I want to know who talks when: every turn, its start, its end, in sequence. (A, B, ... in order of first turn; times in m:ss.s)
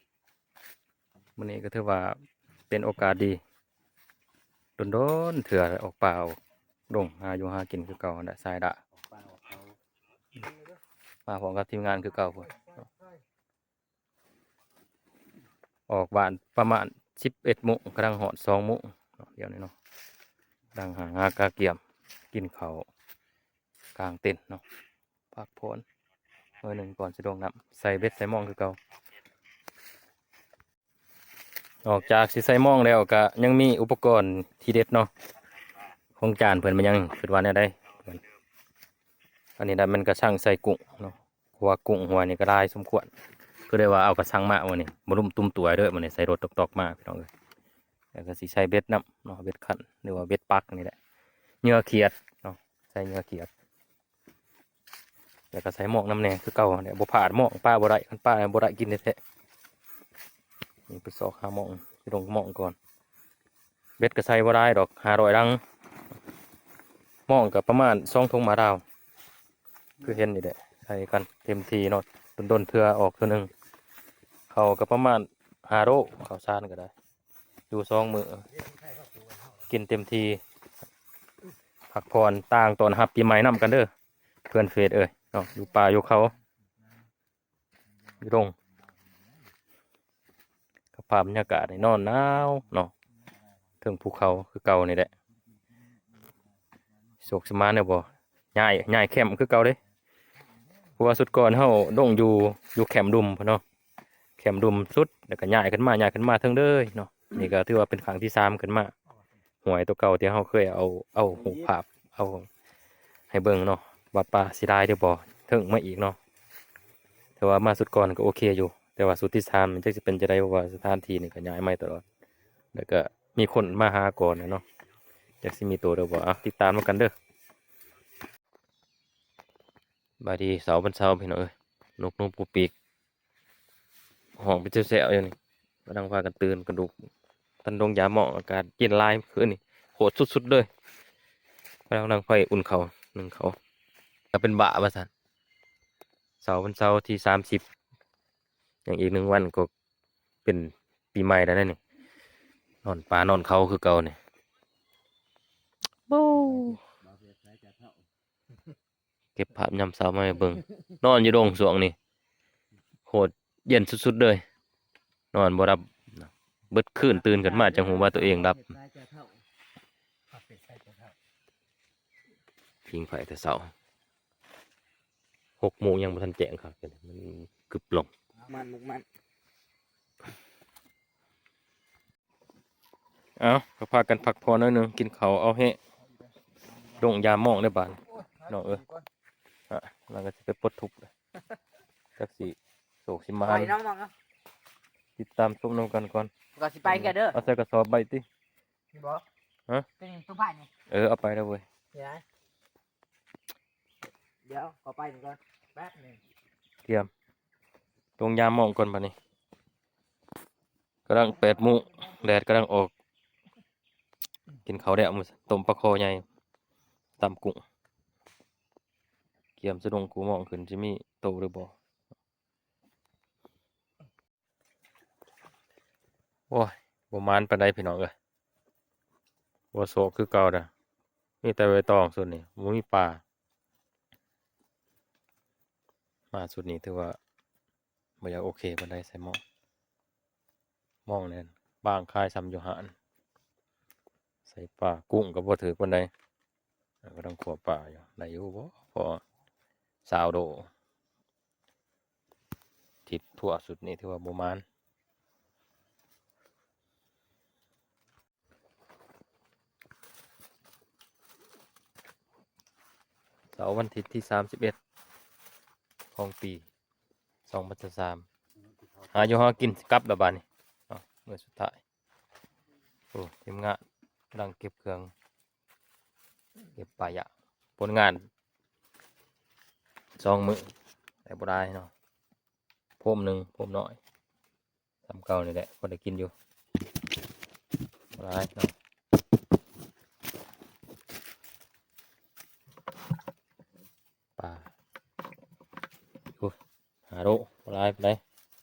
0:01.4-0:02.2 A
0:02.7-0:03.4 A
0:04.8-0:06.4 A
0:06.9-0:08.8 A
0:09.1-0:09.6 B
0:11.3-0:12.7 A
0:15.9-0:19.7 A
0:20.7-0:21.8 A
0:22.3-0:22.9 A
0:24.0-0:24.6 A
0:25.3-0:25.8 A
0:26.6-0:28.8 A
0:31.8-0:35.1 A
0:36.2-0:38.2 A
0:39.6-0:43.1 A
0:43.7-0:47.3 A
0:48.1-0:51.0 A
0:51.6-0:53.5 A
0:55.5-0:59.2 A
1:00.9-1:02.8 A
1:04.0-1:05.6 A
1:07.3-1:08.8 A
1:10.0-1:13.5 A
1:14.5-1:16.9 A
1:17.7-1:18.5 A
1:19.7-1:20.4 A
1:21.9-1:23.9 A
1:24.5-1:26.3 A
1:28.2-1:28.5 A
1:30.9-1:32.9 A
1:33.8-1:35.1 A
1:37.2-1:39.8 A
1:41.0-1:43.6 A
1:44.4-1:48.9 A
1:49.6-1:52.5 A
1:53.3-1:56.2 A
1:57.4-2:02.0 A
2:02.7-2:04.6 A
2:05.4-2:07.1 A
2:10.2-2:12.7 A
2:14.4-2:15.3 A
2:15.8-2:17.1 A
2:17.6-2:20.7 A
2:21.9-2:23.6 A
2:24.3-2:25.1 A
2:26.4-2:27.6 A
2:28.8-2:29.7 A
2:30.4-2:31.8 A
2:32.8-2:34.2 A
2:36.1-2:36.8 A
2:39.4-2:42.0 A
2:43.1-2:44.4 A
2:45.3-2:48.7 A
2:48.7-2:49.3 B
2:52.9-2:53.7 A
2:55.6-2:58.1 A
2:58.5-2:59.0 B
3:03.4-3:05.8 A
3:06.9-3:08.9 A
3:09.7-3:11.1 A
3:12.2-3:13.8 A
3:13.4-3:14.1 B
3:15.2-3:16.3 A
3:16.6-3:17.4 B
3:16.8-3:18.2 A
3:18.9-3:19.2 B
3:20.0-3:20.7 B
3:20.9-3:21.6 A
3:21.9-3:22.2 B
3:24.4-3:26.2 B
3:28.2-3:29.1 A
3:31.1-3:32.9 A
3:34.7-3:36.2 A
3:37.2-3:37.6 A
3:39.6-3:41.8 A
3:46.5-3:48.1 A
3:49.7-3:50.7 A
3:51.4-3:53.2 A
3:56.3-3:57.2 A
3:58.2-3:59.4 A
4:01.0-4:02.9 A
4:04.5-4:06.1 A
4:07.0-4:09.2 A
4:10.0-4:10.7 A
4:13.1-4:14.6 A
4:23.5-4:24.8 A
4:26.2-4:26.7 A
4:27.5-4:28.2 A
4:29.1-4:31.8 A
4:33.1-4:33.8 A
4:34.3-4:35.1 A
4:36.8-4:38.3 A
4:40.2-4:40.7 A
4:41.2-4:41.9 A
4:43.0-4:44.0 A
4:45.1-4:46.3 A
4:48.2-4:48.8 A
4:54.4-4:54.7 A
4:57.1-4:58.2 A